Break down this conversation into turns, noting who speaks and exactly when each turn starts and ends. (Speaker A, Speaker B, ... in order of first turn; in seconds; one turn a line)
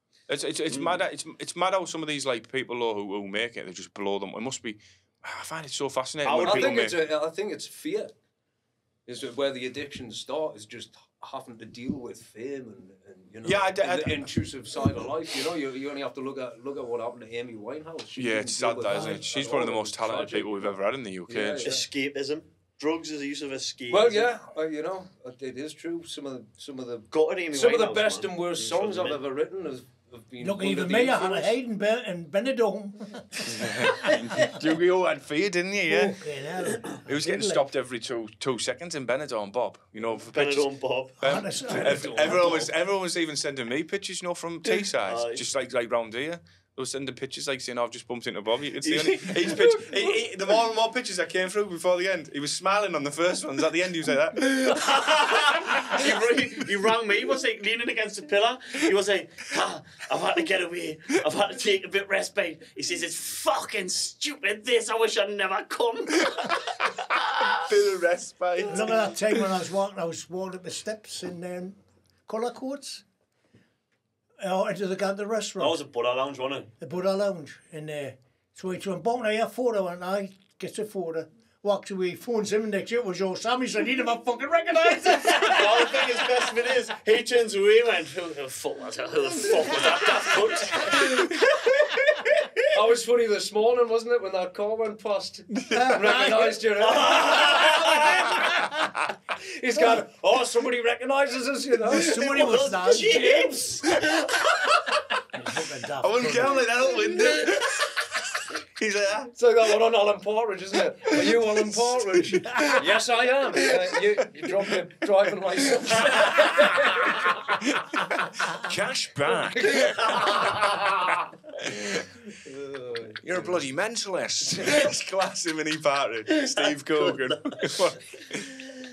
Speaker A: 0.3-7.0
Speaker B: 0.7-1.0
Speaker B: 6.2-6.8
Speaker C: 6.4-8.1
Speaker C: 9.1-20.7
Speaker A: 13.4-14.3
Speaker A: 18.2-21.7
Speaker D: 18.9-19.2
Speaker C: 21.3-21.9
Speaker B: 21.6-24.3
Speaker C: 23.9-31.6
Speaker B: 27.1-29.2
Speaker D: 30.4-34.5
Speaker A: 33.5-36.2
Speaker D: 35.9-37.6
Speaker A: 37.0-54.8
Speaker B: 40.3-41.2
Speaker D: 41.2-42.5
Speaker C: 41.6-42.7
Speaker B: 45.0-45.4
Speaker B: 48.8-49.8
Speaker B: 54.5-67.5
Speaker A: 67.6-69.1
Speaker D: 68.7-73.0
Speaker D: 74.4-75.8
Speaker B: 75.6-76.7
Speaker D: 76.8-86.4
Speaker B: 85.2-92.6
Speaker C: 92.7-98.8
Speaker A: 95.6-96.3
Speaker B: 96.0-98.3
Speaker C: 99.4-104.1
Speaker D: 101.9-103.2
Speaker B: 102.1-104.1
Speaker D: 105.3-106.7
Speaker A: 106.0-109.4
Speaker C: 109.4-117.4
Speaker A: 111.0-112.8
Speaker A: 113.7-114.8
Speaker A: 115.9-120.6
Speaker C: 119.5-121.1
Speaker A: 121.6-122.0
Speaker C: 122.4-123.6
Speaker A: 123.2-128.6
Speaker C: 124.6-124.9
Speaker B: 127.0-127.8